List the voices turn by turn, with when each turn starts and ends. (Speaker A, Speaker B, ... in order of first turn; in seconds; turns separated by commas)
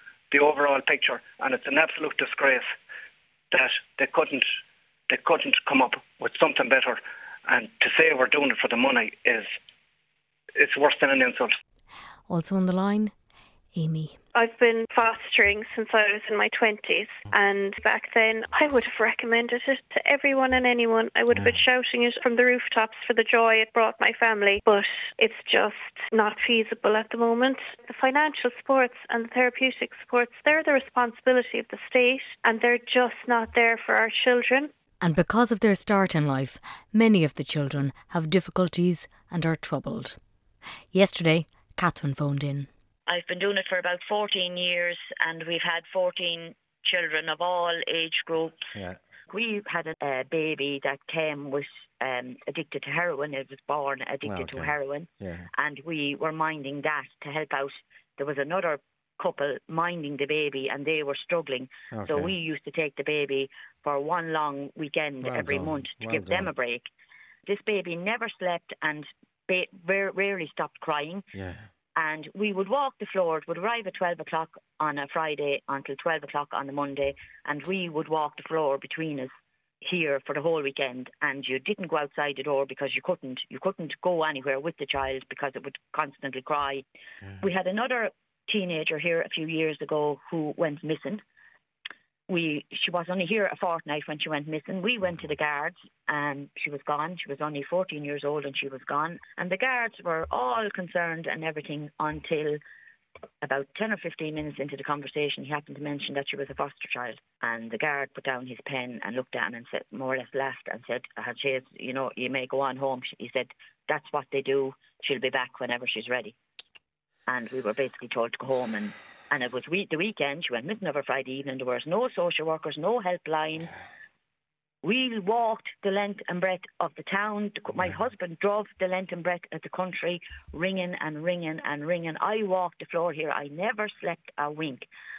Speaker A: 0.3-2.7, Speaker A: 3.5-4.5, Speaker A: 5.1-9.5, Speaker A: 10.6-11.6, Speaker B: 12.3-13.1, Speaker B: 13.7-14.2, Speaker C: 14.3-34.7, Speaker D: 21.3-21.6, Speaker B: 35.0-40.2, Speaker B: 40.9-42.7, Speaker E: 43.1-48.6, Speaker E: 49.3-66.9, Speaker D: 54.2-55.5, Speaker D: 61.9-62.3, Speaker D: 65.2-66.5, Speaker E: 67.5-71.3, Speaker D: 71.3-71.7, Speaker E: 72.0-79.3, Speaker E: 79.8-86.8, Speaker E: 87.4-91.2, Speaker E: 92.3-102.6, Speaker E: 103.4-116.3, Speaker E: 117.3-123.7, Speaker E: 124.8-134.9